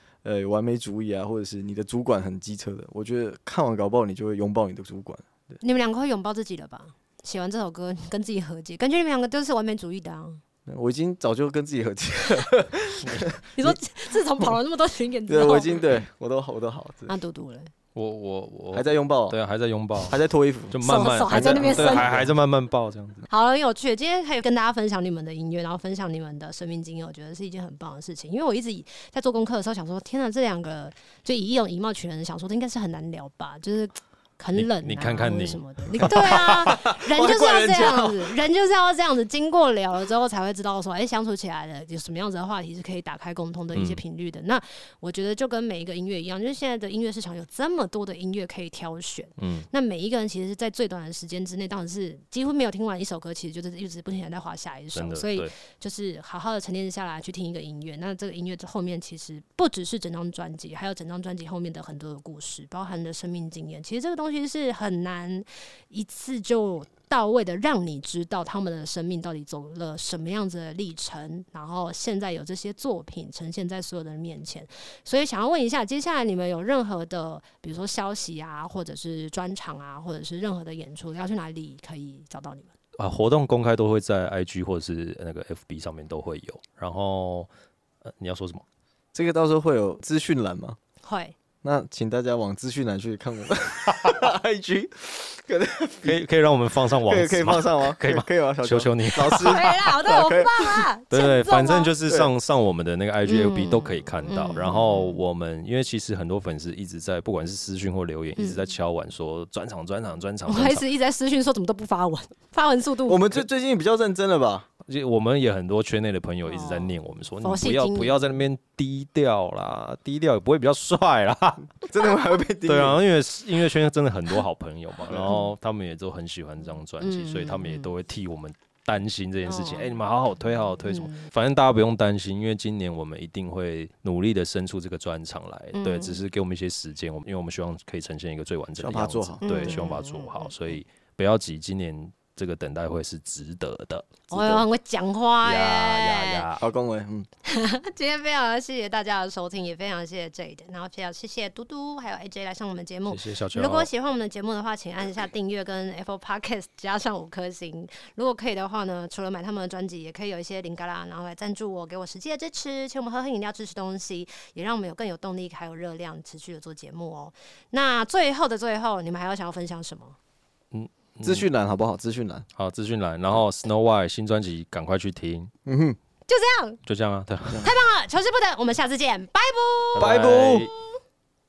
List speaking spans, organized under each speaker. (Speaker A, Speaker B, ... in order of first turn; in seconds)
Speaker A: 0.2-5.3, 10.7-14.6, 15.3-17.1, 18.7-19.4, 20.0-22.3, 36.0-38.3, 89.1-90.8, 91.6-96.2, 97.1-100.9, 113.1-114.7, 121.9-123.0, 138.8-139.9, 144.3-144.7, 146.6-147.3, 171.2-172.4, 175.7-176.0, 179.9-180.7
Speaker B: 5.6-10.4, 13.6-15.8, 17.1-17.7, 20.8-22.1, 23.3-82.7, 91.0-91.4, 99.2-101.9, 103.2-105.2, 108.4-108.7, 110.5-113.3, 116.4-118.2, 127.0-127.9, 129.4-129.9, 130.9-131.3, 135.7-136.2, 139.4-140.7, 144.3-146.4, 147.4-170.2, 176.3-176.8, 177.6-180.1
Speaker C: 17.9-20.2, 20.7-23.3, 34.5-36.8, 43.7-44.0, 49.4-49.7, 54.9-55.5, 83.0-87.5, 88.0-88.6, 96.0-99.9, 101.1-110.9, 114.9-121.7, 122.7-144.3, 145.4-146.6, 153.1-153.9, 170.7-171.5, 172.6-175.5, 176.8-177.6, 179.9-180.7